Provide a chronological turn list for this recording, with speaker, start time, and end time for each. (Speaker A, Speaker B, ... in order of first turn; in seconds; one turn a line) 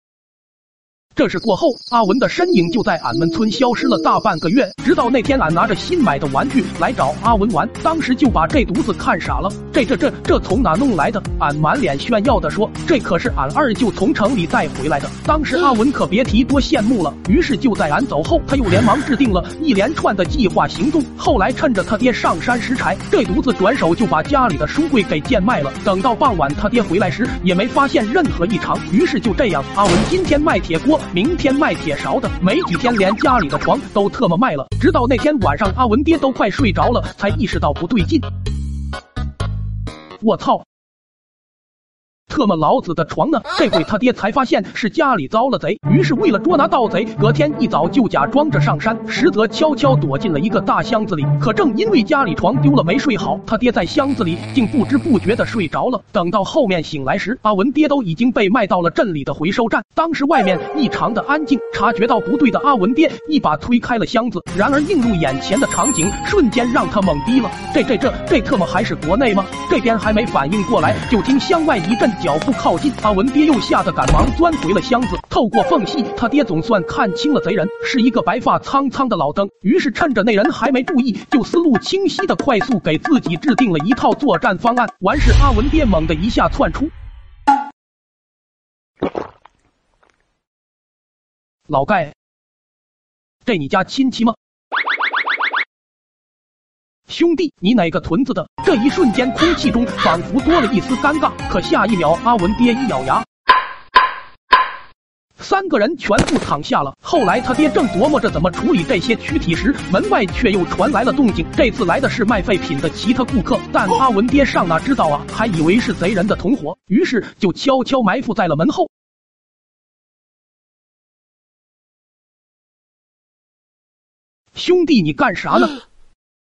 Speaker A: 1.1-38.3
Speaker A: 40.2-40.7
Speaker A: 42.3-86.9
Speaker A: 91.7-92.1
Speaker A: 93.5-94.4
Speaker A: 97.1-103.3
Speaker A: 105.4-118.9
Speaker A: 124.5-125.8